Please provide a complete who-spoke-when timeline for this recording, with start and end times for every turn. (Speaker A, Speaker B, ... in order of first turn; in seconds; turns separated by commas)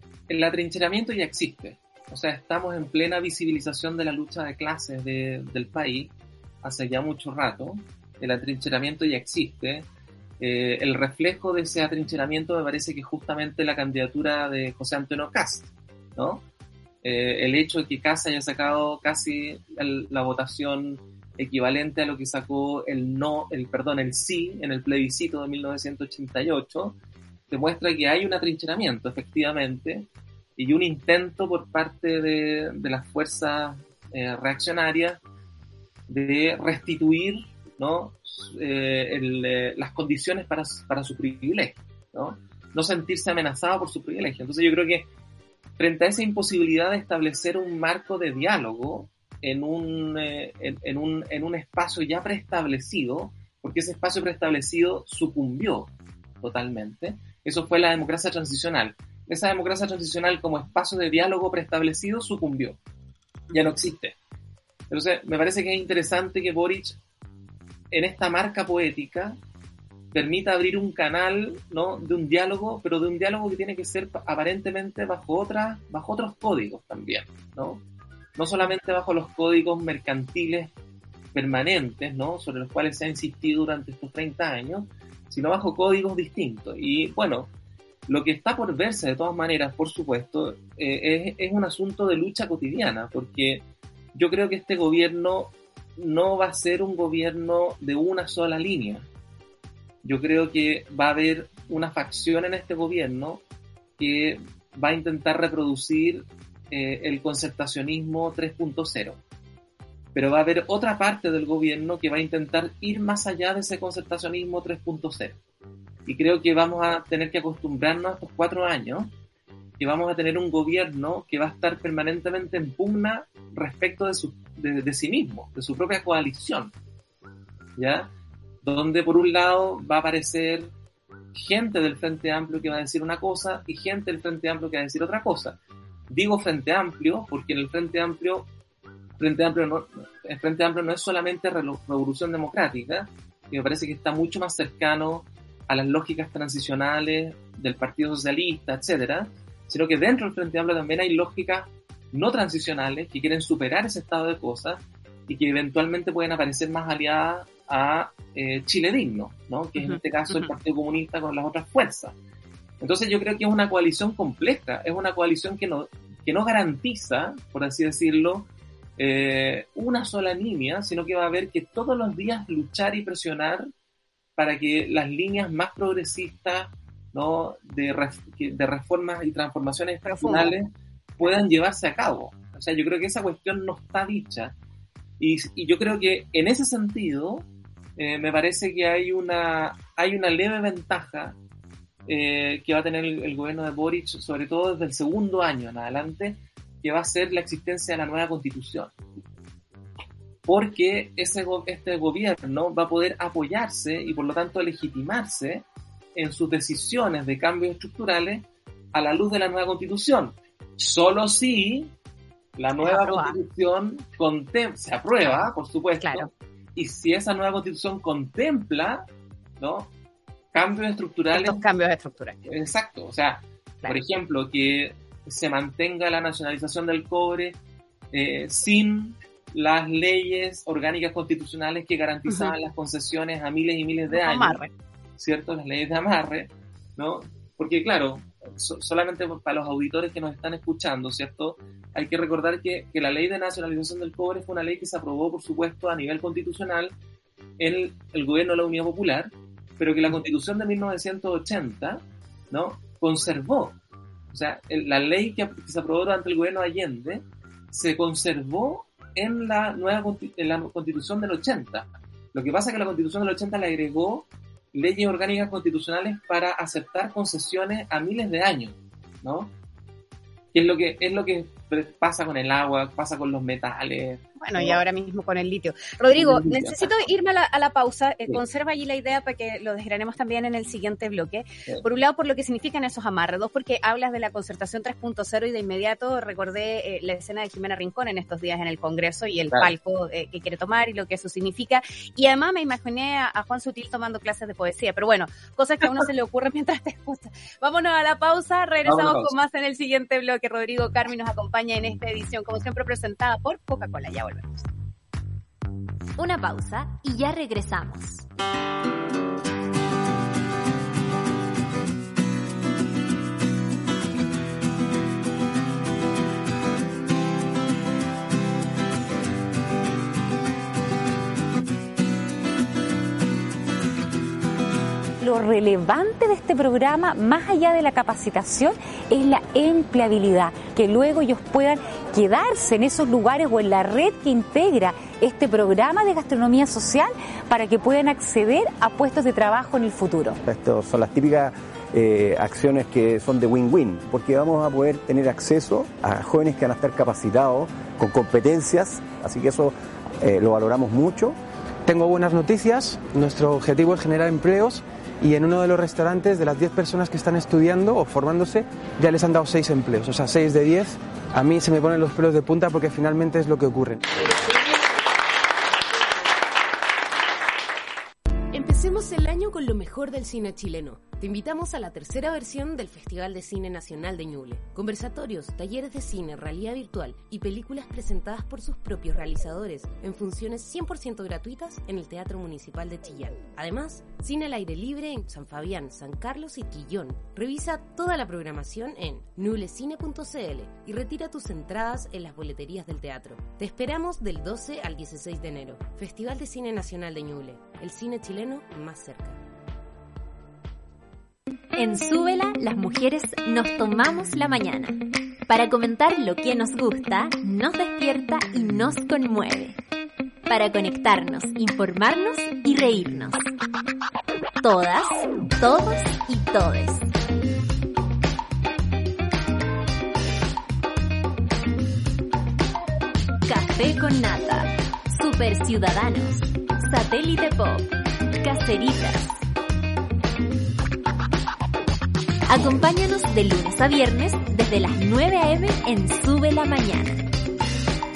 Speaker A: 0.3-6.1, Speaker A: 6.6-9.8, Speaker A: 10.4-16.4, Speaker A: 17.0-26.9, Speaker A: 27.5-30.1, Speaker A: 30.6-35.2, Speaker A: 36.1-45.1, Speaker A: 45.8-55.9, Speaker A: 56.4-62.8, Speaker A: 63.5-64.2, Speaker A: 64.9-67.0, Speaker A: 67.9-69.4, Speaker A: 70.1-77.8, Speaker A: 78.4-80.7, Speaker A: 81.3-87.5, Speaker A: 88.1-93.6, Speaker A: 94.1-99.0, Speaker A: 100.0-103.4, Speaker A: 104.0-109.2, Speaker A: 110.1-115.4, Speaker A: 116.0-119.1, Speaker A: 119.8-126.7, Speaker A: 127.8-128.1, Speaker A: 128.6-130.7, Speaker A: 131.3-135.6, Speaker A: 136.1-138.5, Speaker A: 139.2-162.1, Speaker B: 159.8-160.5, Speaker A: 162.8-173.7, Speaker A: 174.4-184.5, Speaker B: 180.0-180.6, Speaker A: 185.2-187.4, Speaker A: 188.0-191.3, Speaker A: 192.1-198.9, Speaker A: 200.4-211.9, Speaker A: 212.6-219.1, Speaker B: 212.8-213.3, Speaker B: 216.0-216.3, Speaker A: 219.6-219.9, Speaker A: 220.5-221.6, Speaker B: 221.3-222.4, Speaker A: 222.4-227.6, Speaker A: 228.1-234.6, Speaker B: 232.3-232.5, Speaker B: 234.1-234.7, Speaker A: 235.2-246.9, Speaker A: 247.6-253.8, Speaker A: 254.3-269.5, Speaker A: 270.5-274.8, Speaker B: 274.4-304.7, Speaker A: 276.1-276.9, Speaker A: 298.9-299.4, Speaker C: 306.2-308.2, Speaker D: 325.2-340.4, Speaker E: 340.4-351.4, Speaker F: 351.9-364.0, Speaker G: 368.5-399.4, Speaker C: 401.8-409.8, Speaker C: 410.5-413.5, Speaker C: 414.6-417.1, Speaker C: 423.4-429.4, Speaker C: 432.5-437.2